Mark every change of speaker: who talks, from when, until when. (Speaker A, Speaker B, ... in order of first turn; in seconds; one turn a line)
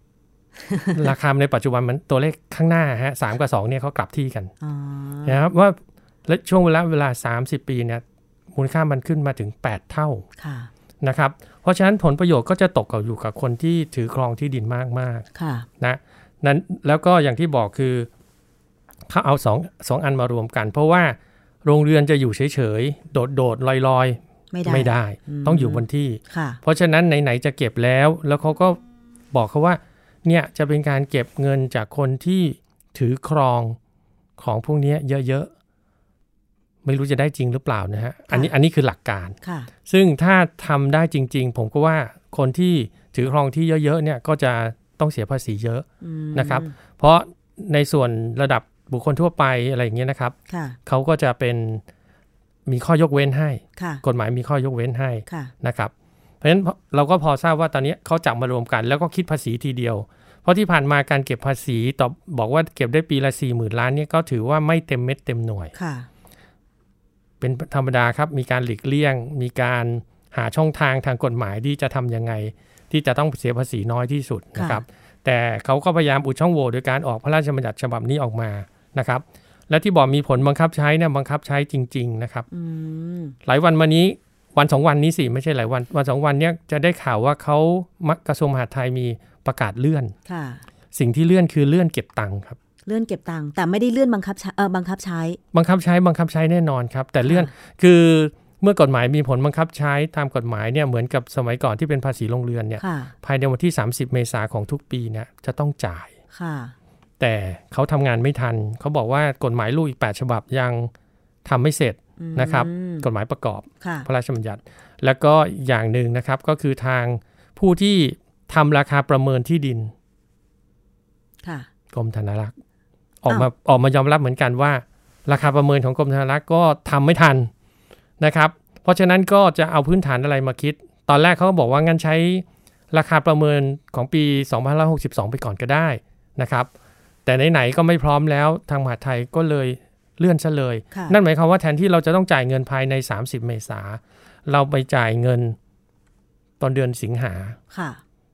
Speaker A: 0.9-4.5
Speaker B: 4.6-5.4
Speaker A: 5.2-10.2
Speaker B: 10.4-10.7
Speaker A: 11.0-15.2
Speaker B: 15.3-15.7
Speaker A: 15.8-18.1
Speaker A: 19.1-28.8
Speaker B: 24.5-26.6
Speaker A: 29.3-33.8
Speaker A: 34.4-35.5
Speaker A: 36.8-39.3
Speaker B: 39.4-39.7
Speaker A: 39.9-50.3
Speaker B: 46.0-46.7
Speaker B: 50.5-50.8
Speaker A: 50.9-51.8
Speaker A: 52.6-65.7
Speaker B: 53.8-54.0
Speaker B: 65.7-66.1
Speaker A: 67.4-82.5
Speaker B: 74.5-74.8
Speaker B: 82.5-83.3
Speaker A: 83.5-90.1
Speaker B: 90.2-90.6
Speaker A: 90.9-92.6
Speaker B: 92.8-95.4
Speaker A: 95.5-106.1
Speaker B: 97.2-97.5
Speaker B: 102.8-103.1
Speaker B: 106.3-106.7
Speaker A: 107.2-110.9
Speaker A: 111.4-119.9
Speaker B: 112.2-113.0
Speaker B: 113.8-114.1
Speaker B: 121.4-121.7
Speaker A: 121.9-122.5
Speaker A: 123.2-127.5
Speaker A: 128.2-136.7
Speaker A: 137.2-145.6
Speaker B: 140.9-141.2
Speaker A: 146.6-147.6
Speaker B: 147.7-148.0